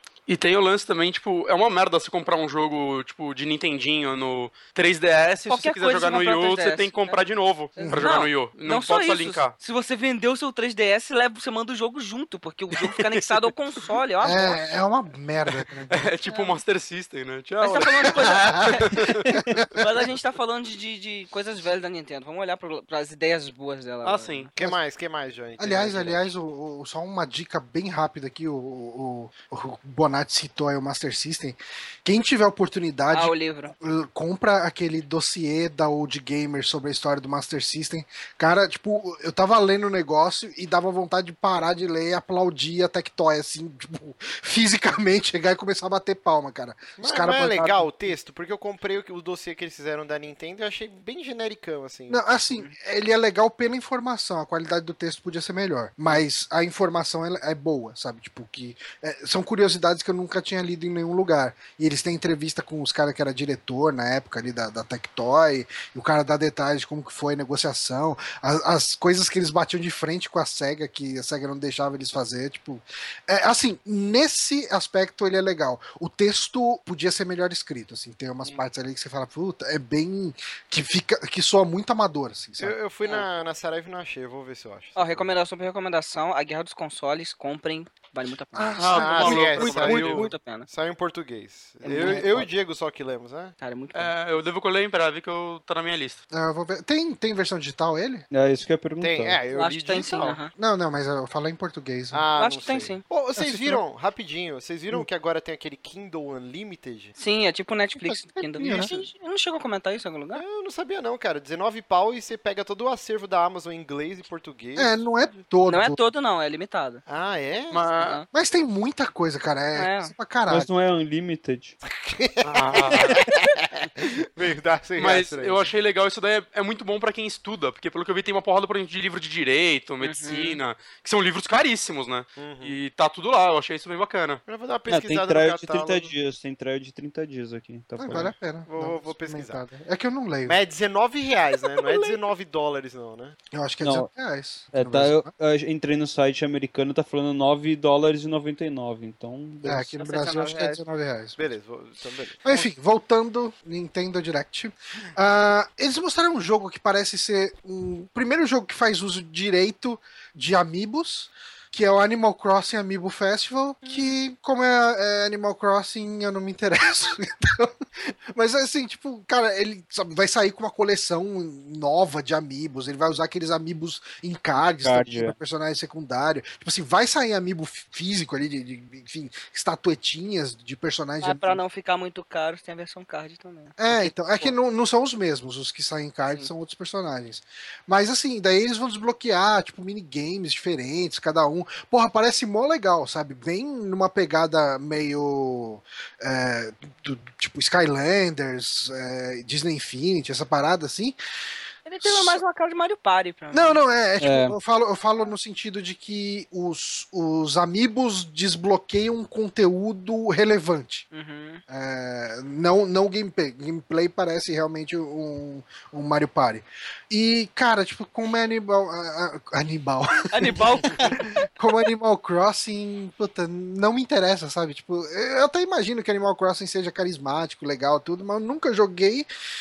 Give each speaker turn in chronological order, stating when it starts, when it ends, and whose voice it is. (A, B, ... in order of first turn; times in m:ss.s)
0:00.3-0:09.5 A
0:05.5-0:07.2 B
0:07.8-0:08.1 C
0:07.8-0:14.8 B
0:12.9-0:13.2 A
0:14.2-0:16.1 C
0:15.9-0:19.3 A
0:16.3-0:16.6 B
0:17.6-0:19.0 B
0:18.3-0:19.8 C
0:19.7-0:24.5 B
0:24.0-0:24.5 A
0:24.6-0:26.3 D
0:25.6-0:47.9 C
0:33.1-0:33.7 B
0:47.0-0:52.2 D
0:52.1-1:22.8 C
1:22.6-1:25.3 D
1:25.0-1:30.7 B
1:28.5-1:30.3 C
1:28.8-1:30.3 A
1:28.9-1:33.5 D
1:31.8-1:32.2 B
1:33.6-1:34.1 B
1:33.9-1:36.2 A
1:36.3-1:38.3 C
1:38.3-1:39.4 E
1:39.0-1:40.4 D
1:39.5-1:40.5 B
1:40.6-1:42.3 C
1:42.1-1:47.1 D
1:42.4-1:43.0 B
1:43.4-1:43.8 C
1:47.2-1:50.4 B
1:48.0-1:48.9 C
1:50.3-1:55.0 D
1:54.8-1:56.0 C
1:55.7-1:57.0 B
1:57.0-1:57.8 D
1:57.7-1:58.2 A
1:58.0-1:58.2 B
1:58.3-2:00.7 C
1:59.7-2:00.1 B
2:00.5-2:01.8 E
2:01.8-2:05.7 D
2:02.4-2:03.2 A
2:05.0-2:14.4 A
2:10.0-2:10.6 B
2:12.4-2:12.8 D
2:14.4-2:16.1 D
2:14.9-2:18.3 E
2:18.0-2:20.6 C
2:18.7-2:19.6 D
2:20.4-2:23.4 D
2:21.7-2:22.2 B
2:23.5-2:25.3 C
2:23.8-2:24.1 E
2:24.7-2:29.9 E
2:29.6-2:31.5 C
2:30.0-2:30.8 B
2:31.4-2:32.6 D
2:32.4-3:01.6 C
2:43.8-2:44.1 B
2:54.8-2:55.4 E
3:01.2-3:04.5 B
3:03.8-3:21.2 C
3:21.8-3:23.8 B
3:22.0-3:22.4 C
3:23.5-3:31.0 C
3:24.2-3:24.6 E
3:31.1-3:31.6 B
3:31.7-3:49.3 C
3:40.3-3:41.3 B